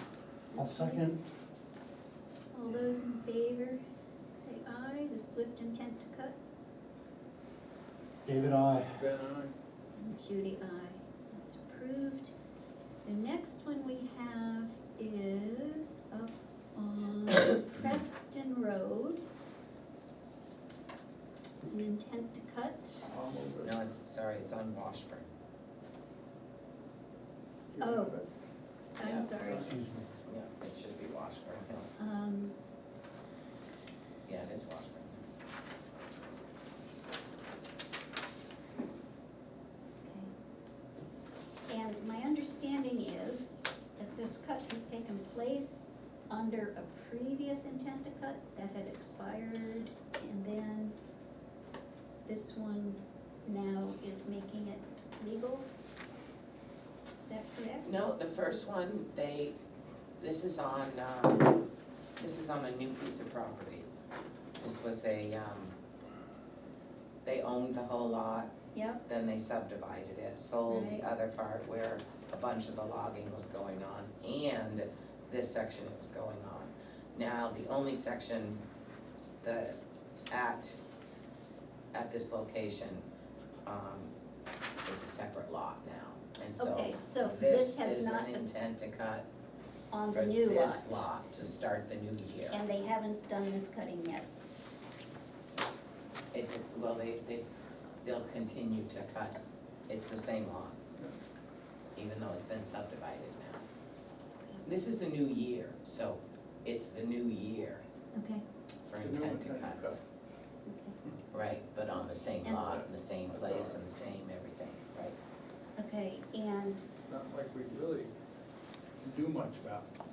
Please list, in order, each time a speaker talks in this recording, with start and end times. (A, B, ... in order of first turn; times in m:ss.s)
0:00.5-0:01.0 A
0:00.5-0:01.2 B
0:02.5-0:03.8 A
0:04.3-0:06.4 A
0:08.2-0:09.0 B
0:08.9-0:09.5 C
0:10.0-0:12.3 A
0:13.0-0:19.2 A
0:21.6-0:23.1 A
0:23.1-0:23.8 C
0:23.6-0:25.3 D
0:27.7-0:28.3 C
0:27.8-0:28.1 A
0:29.0-0:29.7 A
0:29.0-0:29.5 D
0:29.4-0:30.1 B
0:29.5-0:29.7 C
0:30.2-0:31.9 D
0:32.0-0:32.5 A
0:34.3-0:35.2 D
0:40.0-0:40.3 A
0:41.7-0:50.9 A
0:52.2-0:55.7 A
0:57.2-0:57.9 A
0:57.8-0:59.6 D
1:00.2-1:01.6 D
1:02.2-1:03.9 D
1:04.6-1:05.7 D
1:07.2-1:08.5 D
1:08.7-1:09.0 A
1:09.0-1:18.6 D
1:10.7-1:11.1 A
1:19.4-1:20.8 D
1:21.9-1:23.0 D
1:23.6-1:24.1 D
1:24.8-1:29.2 D
1:26.6-1:28.4 A
1:29.9-1:31.0 A
1:30.1-1:32.6 D
1:32.5-1:34.3 A
1:36.3-1:37.4 D
1:38.0-1:40.8 D
1:41.9-1:43.6 D
1:44.6-1:47.8 D
1:48.1-1:48.4 A
1:48.9-1:50.0 D
1:49.0-1:50.0 C
1:50.6-1:51.0 A
1:51.3-1:55.2 D
1:52.4-1:53.8 C
1:55.8-1:56.8 A
1:56.9-1:58.1 C
1:59.0-1:59.9 C